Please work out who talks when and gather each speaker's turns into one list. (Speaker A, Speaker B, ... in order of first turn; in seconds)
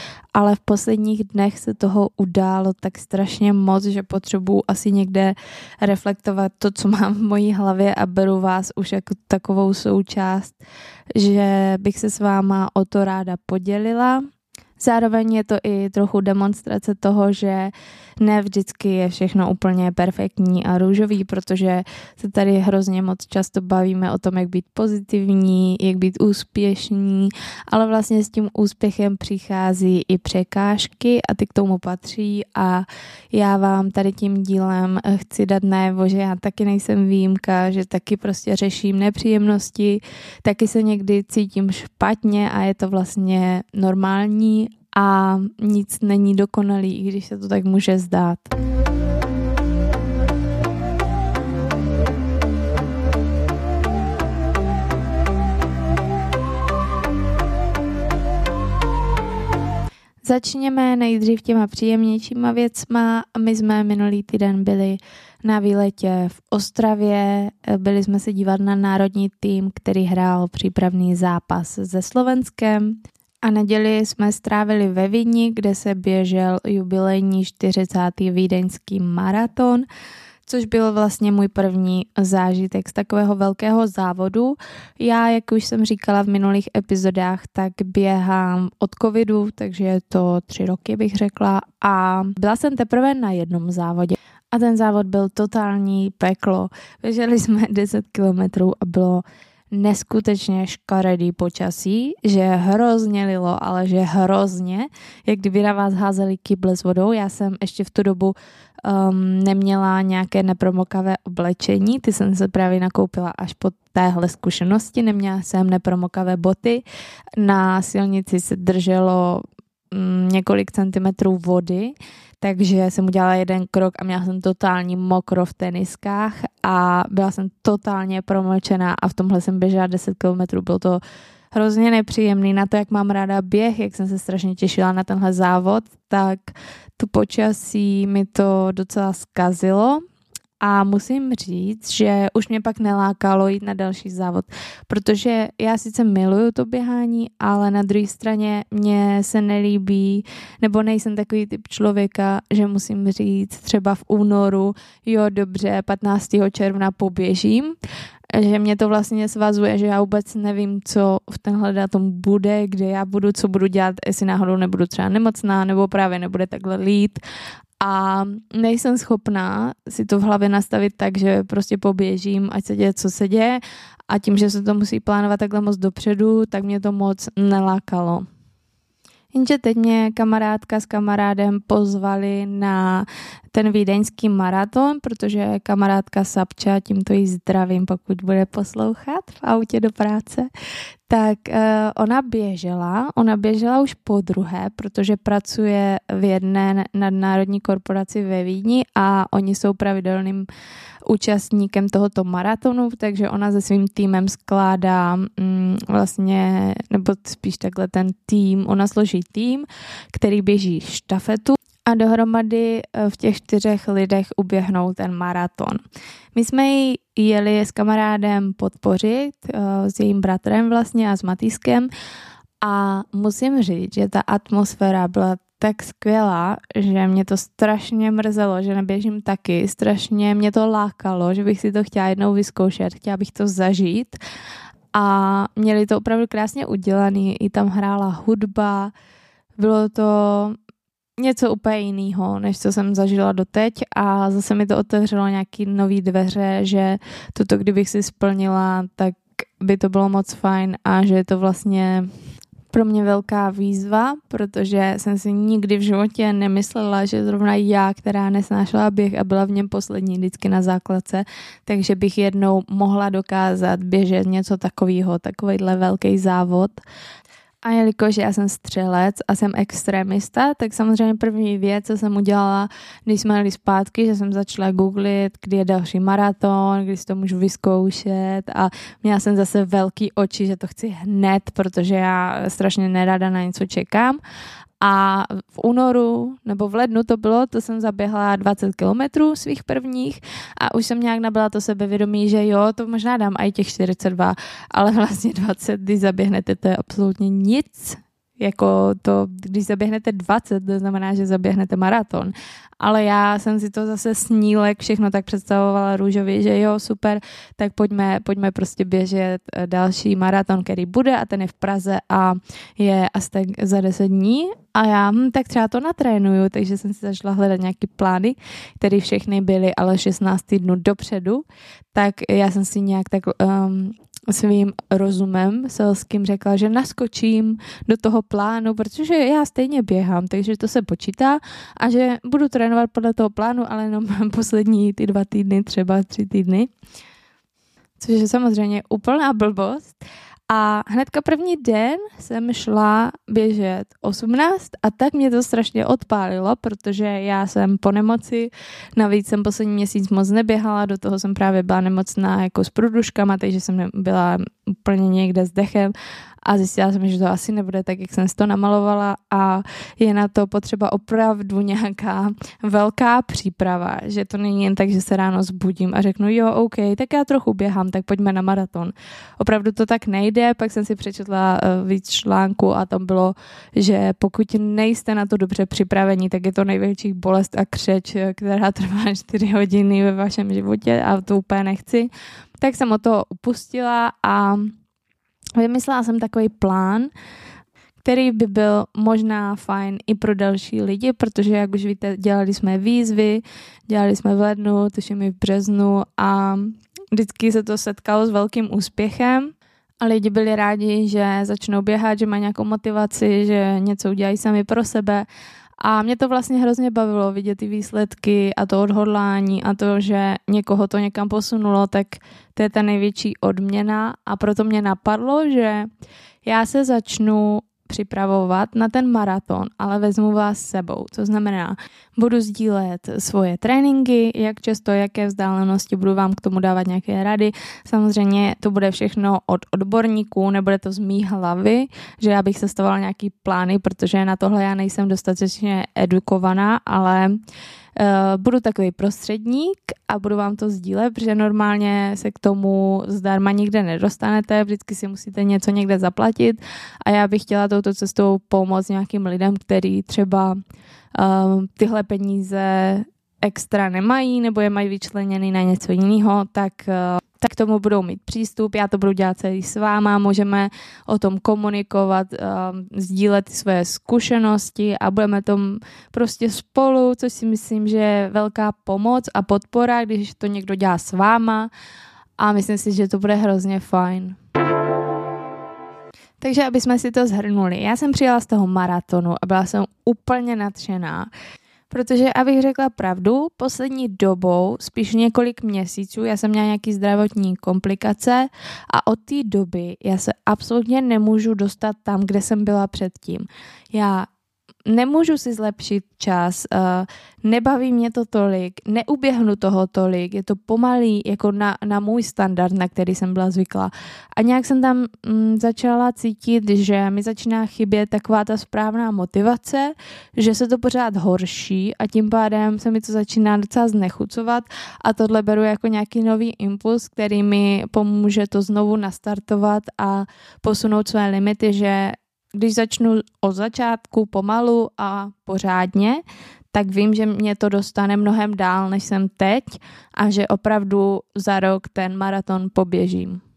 Speaker A: 0.3-10.6, 11.2-14.2, 14.8-48.5, 60.2-79.9, 80.5-116.8, 117.4-131.0, 131.5-140.0, 140.6-157.8, 158.3-167.2, 167.8-178.2, 179.3-190.5, 191.1-200.5, 201.1-215.8, 216.3-221.9, 222.6-234.2, 234.9-238.9, 239.6-240.6, 241.2-252.1, 252.7-266.8, 267.6-284.2, 284.8-336.7, 338.0-340.0, 340.5-355.9, 356.4-384.8, 385.6-387.1, 388.0-405.2, 405.8-415.9, 416.4-437.4, 438.0-450.6, 451.1-471.7, 472.4-474.4, 476.4-481.3, 481.9-494.3, 494.9-533.4